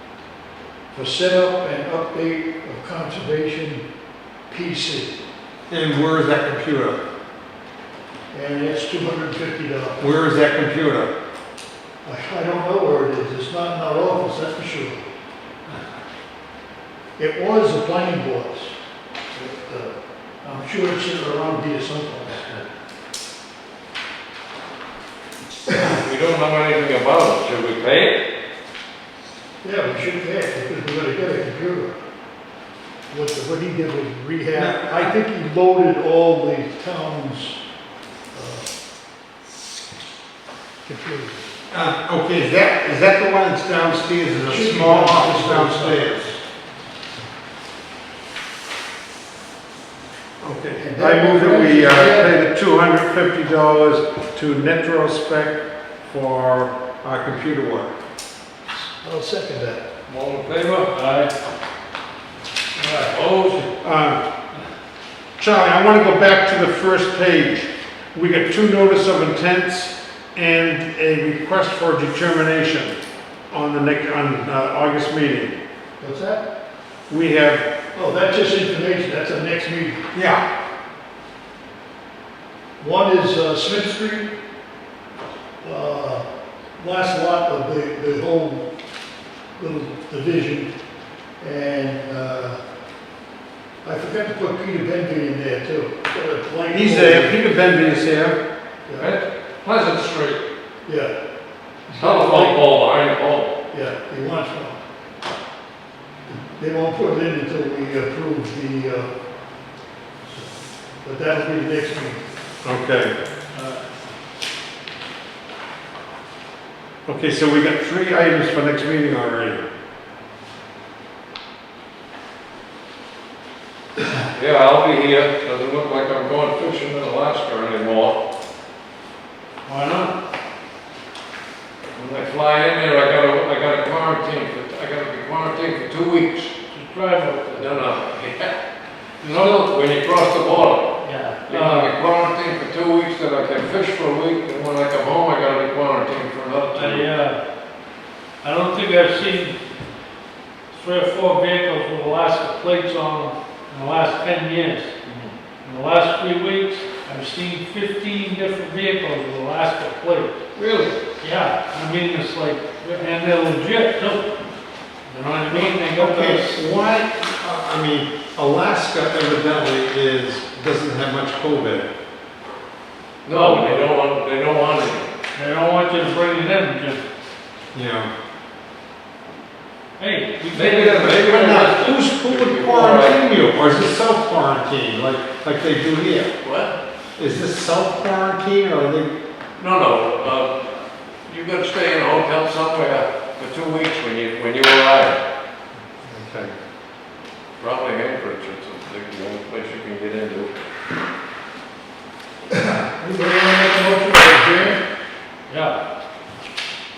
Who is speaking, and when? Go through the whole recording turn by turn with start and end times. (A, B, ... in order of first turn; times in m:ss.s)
0:00.9-0:03.8 A
0:04.5-0:05.2 A
0:05.7-0:07.0 B
0:08.3-0:10.1 A
0:10.0-0:11.1 B
0:12.0-0:15.1 A
0:17.2-0:18.8 A
0:19.3-0:22.6 A
0:25.7-0:28.2 C
0:29.6-0:31.9 A
0:33.1-0:37.6 A
0:34.5-0:35.1 B
0:38.3-0:38.7 A
0:40.8-0:41.4 A
0:41.7-0:46.3 B
0:44.4-0:46.4 A
0:50.4-0:58.0 B
0:50.8-0:52.4 A
0:58.9-0:59.8 A
1:00.1-1:00.9 C
1:00.9-1:01.3 D
1:02.8-1:03.2 A
1:03.1-1:03.6 C
1:03.8-1:04.2 B
1:05.4-1:15.6 B
1:16.0-1:16.4 A
1:17.1-1:17.7 B
1:17.9-1:20.0 A
1:20.1-1:20.4 B
1:22.8-1:24.3 A
1:25.6-1:26.2 A
1:26.8-1:28.7 A
1:29.6-1:30.7 A
1:31.4-1:32.6 A
1:33.8-1:37.4 A
1:36.7-1:38.4 B
1:38.9-1:39.1 A
1:39.0-1:40.4 C
1:40.8-1:41.1 A
1:41.9-1:42.6 A
1:42.0-1:43.5 C
1:43.7-1:44.8 A
1:46.3-1:49.1 A
1:50.2-1:52.2 A
1:52.6-1:53.2 B
1:57.0-1:59.7 B
2:04.3-2:08.2 C
2:09.6-2:10.1 D
2:11.9-2:16.5 C
2:16.7-2:17.8 D
2:17.5-2:18.6 C
2:19.2-2:27.1 C
2:19.2-2:19.6 D
2:21.0-2:21.9 D
2:26.7-2:27.4 D
2:28.4-2:29.6 D
2:30.7-2:34.9 D
2:35.0-2:35.3 C
2:35.6-2:40.4 D
2:40.6-2:40.9 C
2:41.2-2:44.3 D
2:45.1-2:46.6 D
2:45.5-2:51.9 B
2:53.2-2:55.1 C
2:53.3-2:53.8 D
2:55.3-2:57.0 D
2:57.7-2:58.1 B
3:00.0-3:01.2 D
3:00.5-3:03.4 C
3:00.8-3:06.3 B
3:06.4-3:06.8 C
3:07.2-3:09.1 B
3:09.6-3:15.2 C
3:16.0-3:16.5 B
3:17.6-3:20.6 C
3:22.5-3:24.8 A
3:25.5-3:25.8 D